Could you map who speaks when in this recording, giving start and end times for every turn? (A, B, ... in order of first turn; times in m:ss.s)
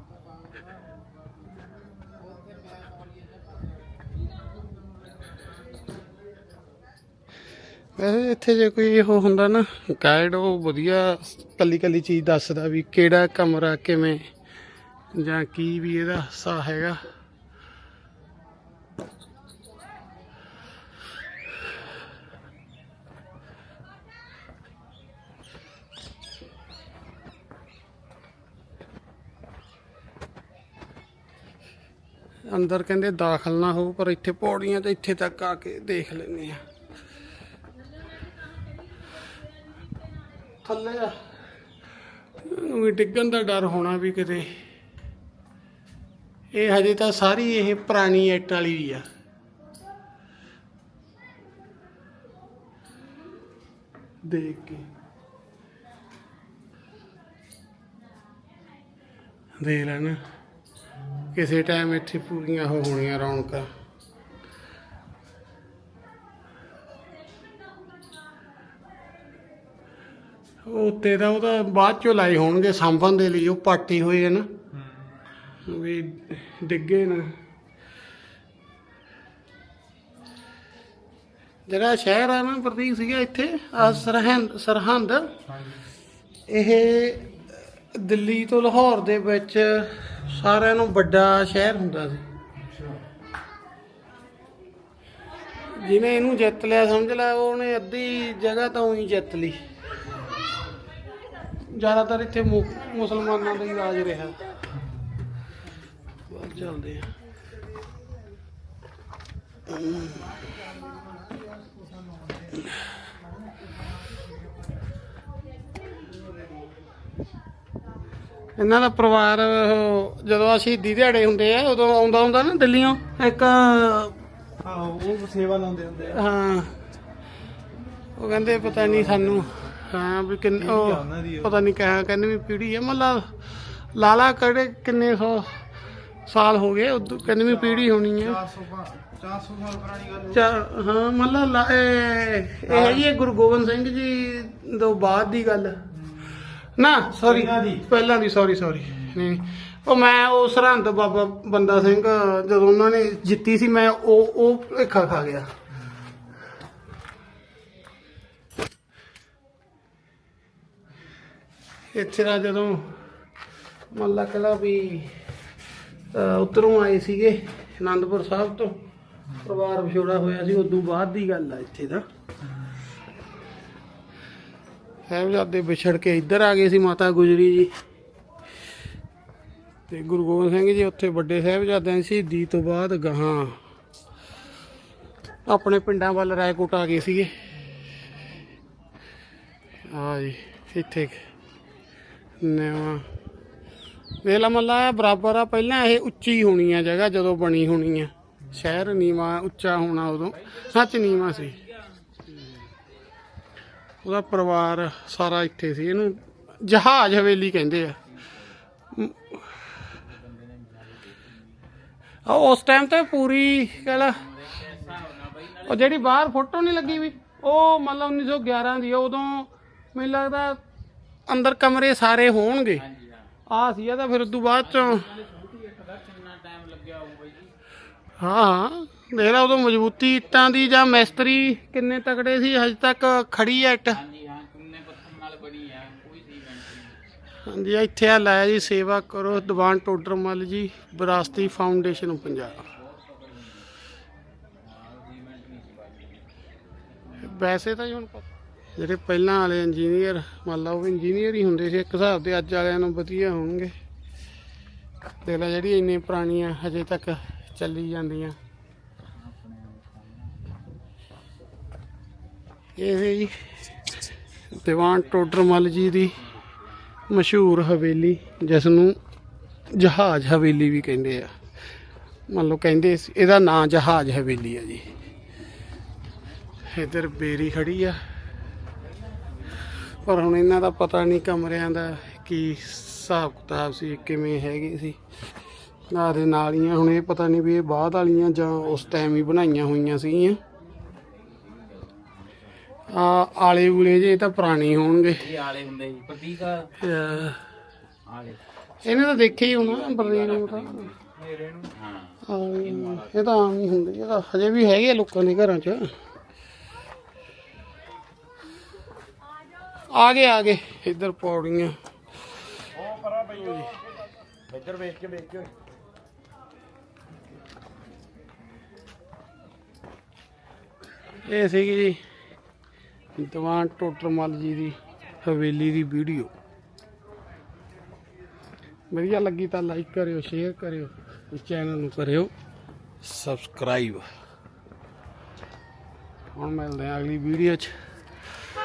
0:08.0-0:14.2 A
0:15.1-0:17.0 A
0:32.5-0:36.6 A
0:40.6-0:41.2 A
0:42.4-0:44.5 A
0:46.5-0:49.0 A
0:54.2-0:54.9 A
0:59.6-1:00.2 A
1:01.3-1:03.7 A
1:10.7-1:14.5 A
1:15.7-1:17.3 A
1:21.7-1:25.3 A
1:26.5-1:27.2 A
1:27.9-1:32.2 A
1:35.7-1:39.6 A
1:41.7-1:44.4 A
1:46.3-1:47.1 A
1:49.7-1:50.1 A
1:58.6-2:04.1 A
2:04.6-2:06.1 B
2:06.0-2:06.8 A
2:08.2-2:13.3 A
2:10.8-2:11.4 B
2:13.9-2:15.5 A
2:16.3-2:18.5 A
2:18.5-2:20.3 B
2:20.2-2:25.8 A
2:26.8-2:35.5 A
2:41.9-2:43.0 A
2:43.9-2:45.1 A
2:46.1-2:48.8 A
2:49.4-2:52.0 A
2:55.1-2:57.7 A
2:59.9-3:03.6 A
3:05.5-3:07.3 A
3:09.9-3:11.2 A
3:12.4-3:13.1 A
3:14.2-3:21.7 A
3:21.2-3:21.5 C
3:24.0-3:28.0 A
3:28.9-3:29.4 A
3:29.8-3:31.6 C
3:32.2-3:34.2 A
3:33.7-3:36.2 C
3:35.6-3:40.6 A
3:41.3-3:42.8 A
3:42.8-3:43.3 C
3:43.5-3:45.1 A
3:44.7-3:47.5 C
3:48.2-3:54.0 A
3:50.5-3:51.3 C
3:53.9-3:57.0 C
3:57.4-4:02.7 A
4:01.7-4:03.7 C
4:04.6-4:06.2 C
4:07.2-4:08.2 A
4:08.8-4:13.7 A
4:15.2-4:18.4 A
4:19.2-4:20.5 C
4:22.8-4:23.4 A
4:24.5-4:26.2 A
4:25.2-4:26.5 C
4:27.1-4:29.0 A
4:29.7-4:31.3 A
4:32.3-4:34.8 A
4:36.7-4:38.0 A
4:39.9-4:45.0 A
4:45.9-4:50.4 A
4:51.4-4:52.1 C
4:52.9-4:55.3 A
4:55.2-4:56.8 C
4:56.8-4:57.4 A
4:58.1-4:58.4 C
4:58.8-5:00.9 A
4:59.2-5:03.1 C
5:02.2-5:05.9 A
5:09.9-5:11.7 A
5:13.2-5:13.7 A
5:14.9-5:15.4 B
5:21.2-5:22.0 A
5:23.2-5:26.3 A
5:28.9-5:32.3 A
5:33.0-5:34.0 A
5:36.3-5:37.7 A